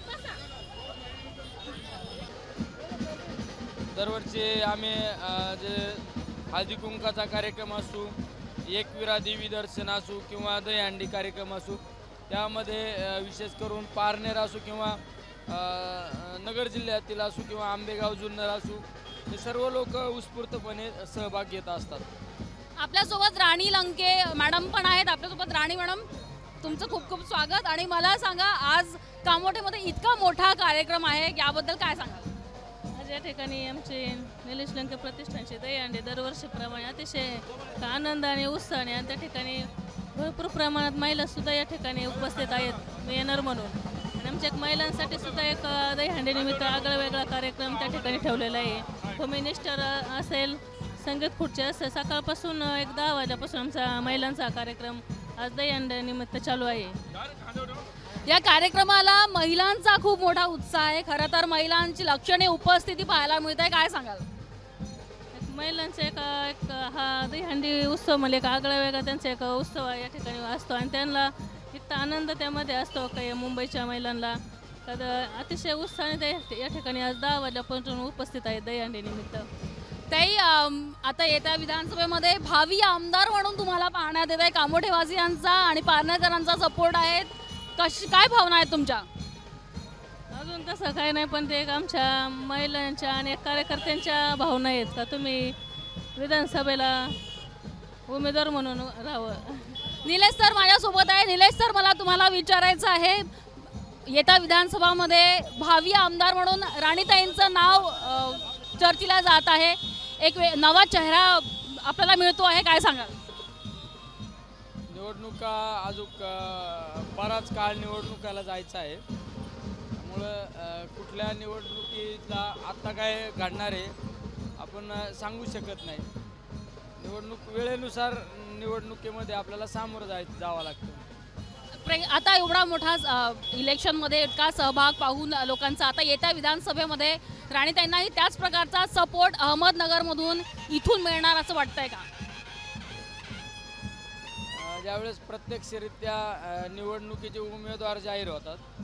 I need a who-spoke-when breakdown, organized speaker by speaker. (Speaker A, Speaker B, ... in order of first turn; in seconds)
Speaker A: 3.9-22.1, 114.9-119.0, 120.0-123.9, 124.6-126.1, 127.0-131.0, 144.5-148.6
Speaker B: 22.8-26.1, 26.6-32.3, 58.2-64.2, 80.1-89.1, 100.0-103.3, 104.0-113.1, 131.7-142.1
Speaker C: 32.9-57.0, 65.3-79.5, 90.3-95.5, 96.1-97.2, 98.1-99.7